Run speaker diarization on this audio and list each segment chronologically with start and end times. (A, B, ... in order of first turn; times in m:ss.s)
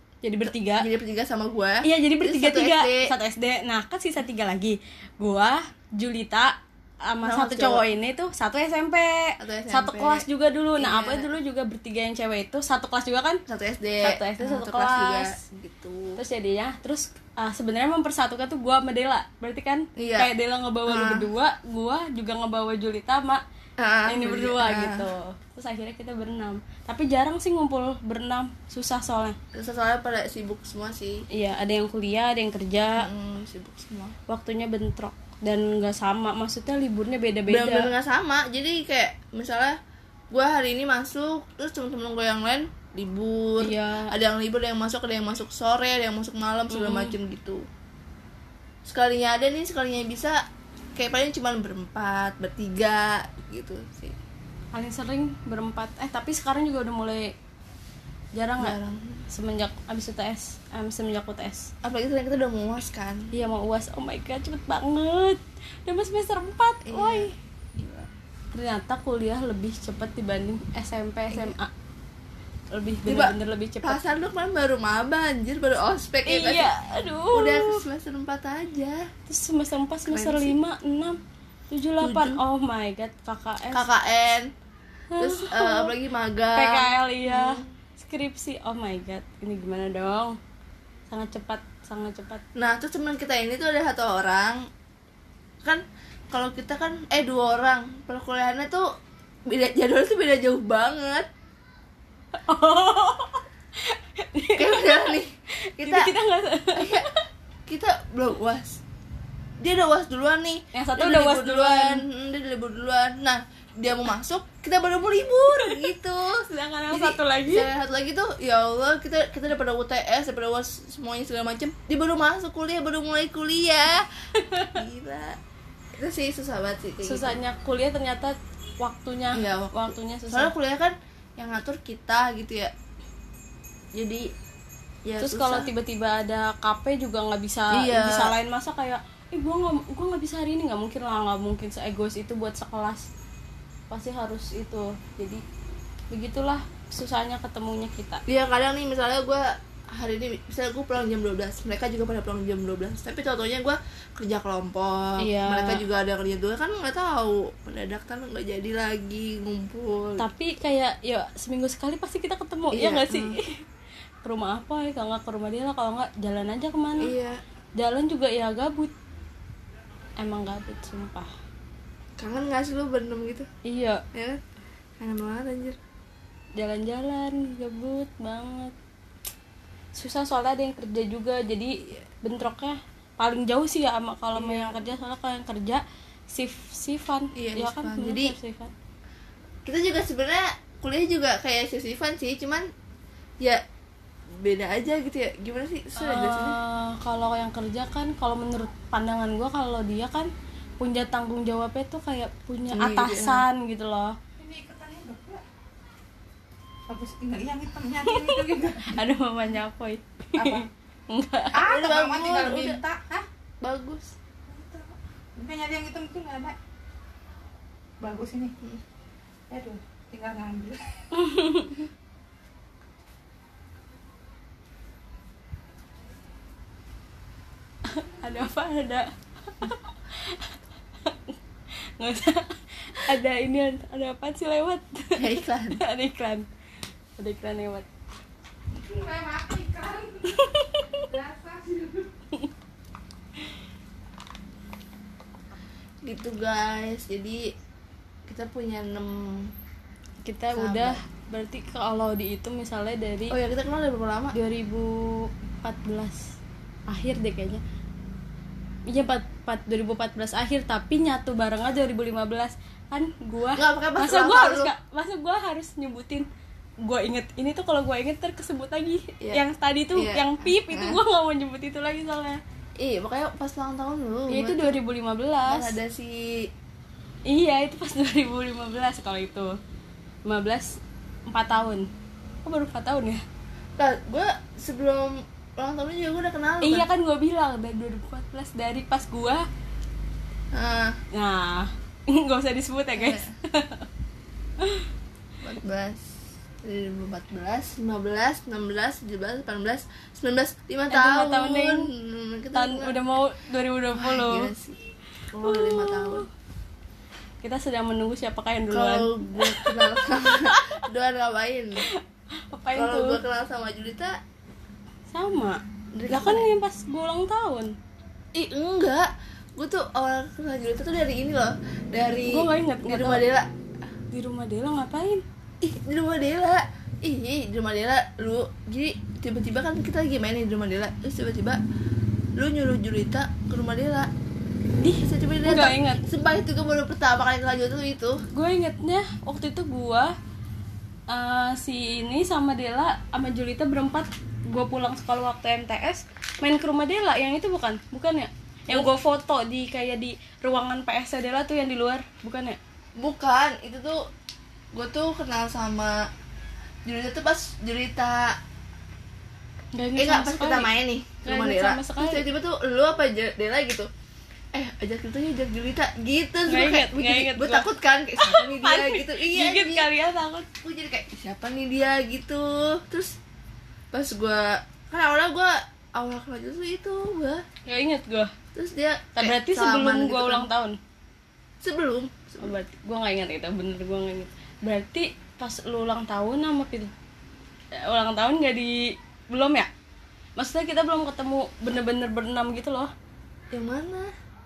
0:00.2-0:00.9 A
0:00.5-0:03.1 B
0:01.8-0:06.6 A
0:07.1-0:13.4 A
0:07.2-0:07.8 B
0:09.4-0:10.3 B
0:10.8-0:11.3 B
0:13.5-0:16.2 B
0:14.0-0:15.4 A
0:16.2-0:23.4 A
0:20.0-0:20.3 B
0:20.9-0:21.3 B
0:23.8-0:25.1 B
0:24.1-0:29.4 A
0:29.6-0:31.2 B
0:31.3-0:33.1 A
0:33.0-0:34.2 B
0:34.3-0:37.9 A
0:37.5-0:39.8 B
0:40.3-0:47.6 B
0:43.6-0:44.1 A
0:46.7-0:47.2 A
0:48.9-0:50.4 B
0:51.0-0:54.2 B
0:54.7-0:57.3 A
0:58.4-0:58.8 A
0:58.6-0:59.2 B
0:59.3-1:01.7 A
1:01.8-1:03.3 B
1:03.3-1:07.3 A
1:06.9-1:08.1 B
1:08.5-1:11.7 A
1:11.3-1:11.6 B
1:12.7-1:14.0 A
1:13.1-1:16.7 B
1:16.3-1:17.8 A
1:17.3-1:19.1 B
1:19.3-1:21.2 A
1:20.1-1:20.6 B
1:21.7-1:23.9 A
1:22.0-1:22.4 B
1:23.7-1:24.5 B
1:25.1-1:26.0 A
1:25.2-1:27.7 B
1:26.6-1:30.4 A
1:31.1-1:32.4 A
1:32.6-1:34.7 B
1:35.6-1:38.8 B
1:39.5-1:41.3 B
1:42.4-1:45.1 A
1:44.5-1:46.1 B
1:45.6-1:47.0 A
1:46.8-1:47.1 B
1:47.7-1:48.8 B
1:49.6-2:04.1 B
1:50.7-1:52.0 A
1:55.5-1:55.9 A
1:56.4-1:57.7 A
2:04.4-2:04.8 A
2:04.7-2:05.4 B
2:06.0-2:07.4 B
2:07.0-2:10.5 A
2:09.3-2:12.7 B
2:14.0-2:14.3 B
2:15.1-2:15.7 B
2:15.2-2:23.1 A
2:17.7-2:18.3 B
2:23.9-2:25.4 A
2:26.1-2:28.2 A
2:28.3-2:40.2 B
2:35.2-2:35.8 A
2:40.2-2:43.6 A
2:42.7-2:43.4 B
2:44.2-2:47.2 A
2:47.0-2:47.4 B
2:47.8-2:48.9 A
2:50.2-2:51.3 A
2:52.2-2:53.5 B
2:53.7-2:54.0 A
2:54.1-2:54.4 B
2:55.0-2:55.8 B
2:56.6-2:58.7 A
3:00.0-3:08.7 A
3:04.3-3:04.9 B
3:07.4-3:08.3 B
3:09.6-3:12.6 B
3:14.4-3:16.6 B
3:16.0-3:20.3 A
3:20.8-3:24.2 A
3:22.7-3:23.4 B
3:24.4-3:25.4 C
3:26.9-3:29.0 C
3:28.0-3:31.6 A
3:30.4-3:30.7 C
3:31.5-3:33.3 C
3:31.6-3:32.8 B
3:33.6-3:34.1 B
3:34.5-3:36.6 C
3:38.0-3:38.6 C
3:39.5-3:40.9 C
3:41.1-3:41.8 A
3:47.9-3:49.1 A
3:49.6-3:50.5 A
3:51.0-3:51.3 A
3:52.0-3:56.5 A
3:55.2-3:55.8 B
3:57.2-3:57.9 A
3:58.7-4:02.1 C
4:00.2-4:01.1 A
4:06.0-4:07.4 B
4:08.3-4:09.5 B
4:10.2-4:13.4 A
4:10.5-4:11.0 B
4:13.3-4:14.4 B
4:14.3-4:16.3 A
4:16.9-4:17.6 A
4:18.9-4:26.3 A
4:23.6-4:24.7 B
4:26.8-4:32.4 A
4:30.0-4:31.0 B
4:32.8-4:34.8 B
4:34.3-4:35.8 A
4:35.5-4:36.5 B
4:37.3-4:39.6 A
4:40.2-4:40.8 A
4:41.3-4:41.9 A
4:42.4-4:43.2 A
4:43.8-4:46.9 B
4:46.6-4:49.4 A
4:50.5-4:51.0 B
4:51.1-4:53.8 A
4:53.0-4:53.3 B
4:54.6-4:54.9 A
4:55.4-5:03.0 B
5:00.9-5:01.8 A
5:02.5-5:04.5 A
5:04.0-5:04.8 B
5:05.3-5:06.3 B
5:05.4-5:06.2 A
5:07.4-5:10.7 A
5:08.7-5:11.8 B
5:12.5-5:13.2 A
5:12.8-5:14.1 B
5:15.1-5:17.7 A
5:15.9-5:16.5 B
5:18.4-5:23.5 B
5:22.3-5:23.2 A
5:24.1-5:25.2 A
5:25.6-5:31.6 B
5:32.4-5:34.1 B
5:34.8-5:36.0 A
5:35.0-5:38.2 B
5:38.3-5:40.1 A
5:41.1-5:52.6 A
5:53.0-5:54.0 B
5:54.7-5:56.0 B
5:56.8-5:58.4 B
5:59.8-6:00.7 A
6:00.0-6:03.9 B
6:01.2-6:02.3 A
6:04.5-6:09.9 B
6:06.5-6:07.7 A
6:08.2-6:10.5 A
6:10.6-6:13.2 B
6:13.9-6:17.4 B
6:17.7-6:18.3 A
6:18.6-6:20.5 B
6:19.2-6:20.8 A
6:21.6-6:22.5 B
6:22.4-6:26.9 A
6:27.8-6:29.7 A
6:30.4-6:32.9 A
6:33.5-6:34.1 B